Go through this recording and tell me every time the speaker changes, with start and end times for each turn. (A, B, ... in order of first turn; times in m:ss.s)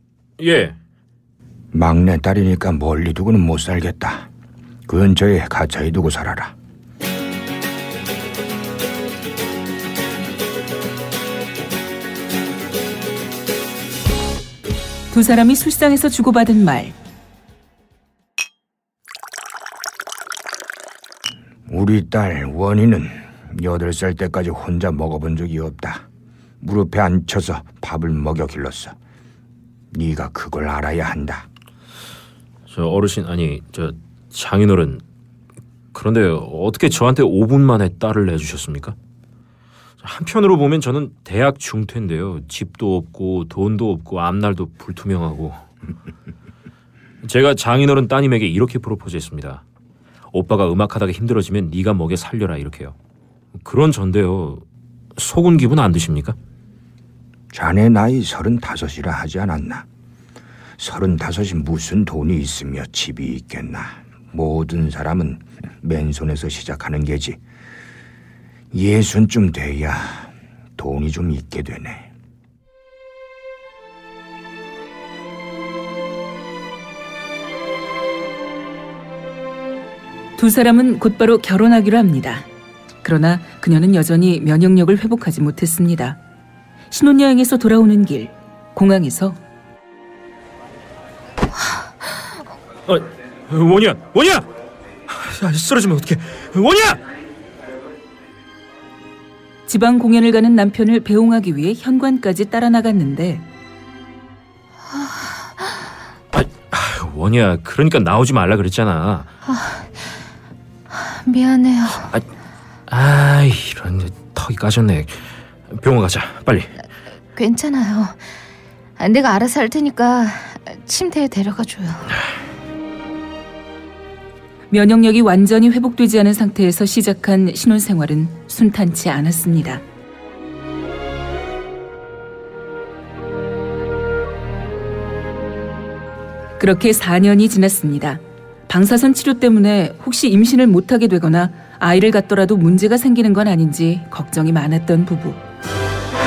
0:00.4-0:00.8 A
0:01.7-0:04.3 B
0:04.9-0:06.5 B
0:15.1-0:16.9 C
0:21.7-0:26.0 B
0:26.6-0:29.0 B
0:29.9-0:31.4 B
0:32.7-0:35.0 A
0:35.9-0:38.9 A
0:40.0-0:45.6 A
0:47.2-0:49.6 A
0:50.3-0:52.9 A
0:53.5-0:54.6 A
0:55.2-0:56.4 A
0:57.5-0:59.8 B
1:00.8-1:07.4 B
1:08.7-1:12.1 B
1:20.4-1:22.4 C
1:23.0-1:26.2 C
1:26.9-1:29.4 C
1:32.8-1:34.4 A
1:35.1-1:37.0 A
1:39.7-1:43.4 C
1:46.3-1:49.3 A
1:49.4-1:50.0 D
1:50.9-1:52.1 D
1:52.9-1:56.7 A
1:57.3-1:58.3 D
1:59.0-2:02.2 D
2:04.7-2:09.8 C
2:16.6-2:25.4 C